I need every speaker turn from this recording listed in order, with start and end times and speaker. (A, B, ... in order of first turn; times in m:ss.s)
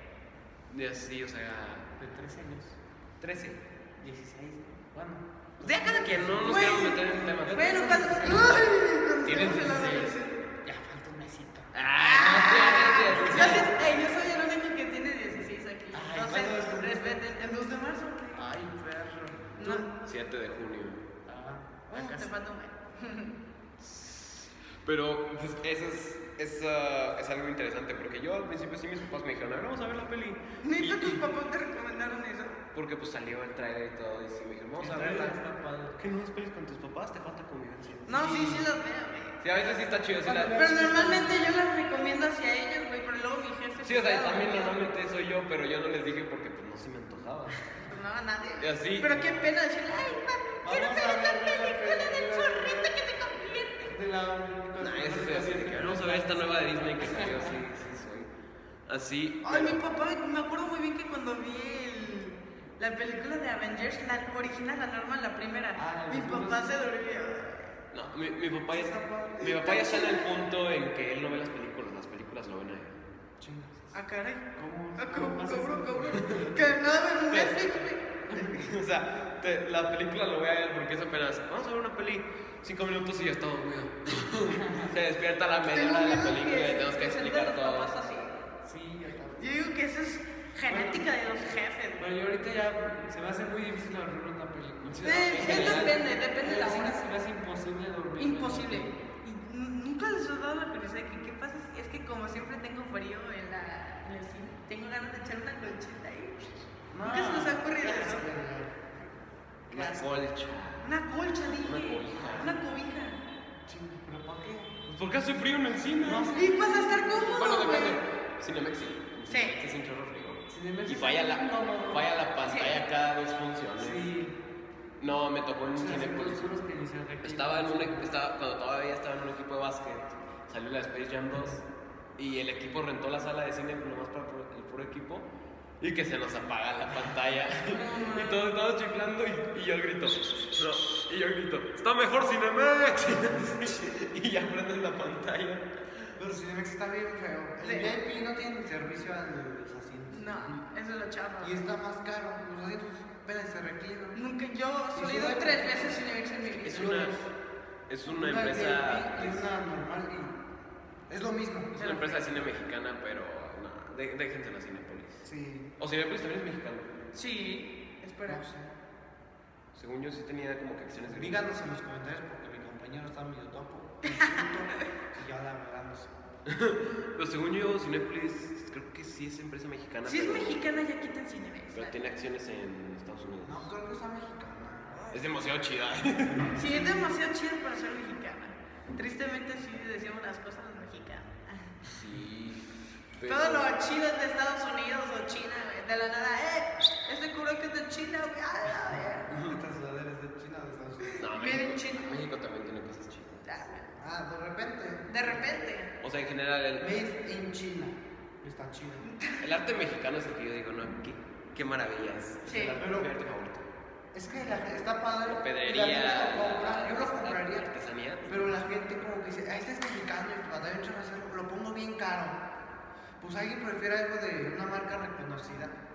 0:00.7-0:01.9 A
0:02.0-0:08.7 B
0:05.6-0:08.1 A
0:06.5-0:10.5 C
0:09.3-0:10.1 A
0:09.4-0:10.0 B
0:10.6-0:14.0 B
0:11.7-0:13.7 A
0:12.0-0:18.4 C
0:15.9-0:17.2 B
0:18.3-0:19.8 B
0:19.6-0:19.9 C
0:19.9-0:21.0 A
0:21.3-0:22.3 B
0:21.9-0:23.3 C
0:23.8-0:31.2 A
0:30.6-0:32.6 C
0:32.7-0:35.4 A
0:34.8-0:36.0 B
0:36.0-0:38.1 A
0:38.1-0:38.7 B
0:38.1-0:39.4 C
0:39.4-0:40.7 A
0:40.2-0:41.5 B
0:40.5-0:44.8 C
0:43.8-0:47.6 A
0:47.8-0:53.9 C
0:48.6-0:49.5 A
0:50.6-0:53.0 B
0:53.9-0:57.6 B
0:54.8-0:58.3 A
0:58.9-0:59.8 A
0:59.4-1:07.8 C
1:05.8-1:06.6 B
1:07.9-1:13.0 A
1:08.7-1:09.8 B
1:09.5-1:10.3 C
1:13.4-1:13.9 B
1:13.9-1:14.5 C
1:14.6-1:16.8 B
1:15.0-1:18.1 C
1:16.2-1:16.4 A
1:17.3-1:17.7 A
1:18.3-1:18.7 B
1:18.3-1:27.9 A
1:24.5-1:24.9 B
1:25.7-1:28.4 C
1:28.6-1:29.6 B
1:29.4-1:32.1 C
1:30.6-1:31.1 B
1:32.0-1:38.9 B
1:34.8-1:36.0 A
1:35.0-1:37.0 C
1:38.2-1:46.5 C
1:46.9-1:49.1 B
1:47.0-1:48.2 C
1:49.7-1:50.1 B
1:49.7-1:50.9 A
1:50.8-1:53.2 C
1:51.6-1:52.6 A
1:52.1-1:52.6 B
1:53.7-1:54.7 B
1:54.9-1:56.3 A
1:56.0-1:57.6 B
1:56.3-1:58.0 C
1:57.3-2:04.1 A
1:59.3-1:59.6 C
2:00.5-2:02.1 B
2:02.5-2:02.8 C
2:03.8-2:04.4 B
2:05.0-2:06.5 A
2:05.8-2:08.1 B
2:07.2-2:11.6 A
2:12.2-2:15.3 A
2:15.8-2:25.6 A
2:17.7-2:18.5 C
2:26.2-2:30.6 B
2:27.6-2:27.9 C
2:30.1-2:31.6 C
2:31.4-2:34.2 B
2:34.1-2:37.0 C
2:34.9-2:36.1 B
2:36.6-2:37.1 A
2:36.7-2:37.3 B
2:37.9-2:39.5 A
2:38.0-2:40.4 B
2:41.1-2:41.7 B
2:41.8-2:42.4 C
2:41.8-2:45.2 A
2:45.2-2:45.7 B
2:45.8-2:46.9 A
2:47.1-2:48.4 C
2:48.3-2:48.7 B
2:49.8-2:51.5 A
2:51.1-2:56.1 B
2:54.0-2:54.4 C
2:56.5-3:00.6 A
3:00.1-3:02.0 C
3:01.7-3:03.7 A
3:03.4-3:05.0 B
3:05.1-3:06.6 A
3:06.4-3:07.1 B
3:06.6-3:11.7 C
3:11.8-3:13.8 A
3:13.3-3:19.3 C
3:19.3-3:21.2 B
3:19.3-3:19.6 A
3:21.0-3:22.1 C
3:21.2-3:23.5 A
3:23.4-3:24.0 C
3:24.0-3:25.4 B
3:25.1-3:25.9 C
3:26.0-3:26.9 A
3:26.8-3:29.1 B
3:29.1-3:29.4 C
3:29.4-3:33.7 A
3:32.4-3:32.8 C
3:32.8-3:33.1 B
3:34.1-3:37.7 B
3:35.3-3:38.5 A
3:38.2-3:42.4 B
3:43.2-3:45.8 B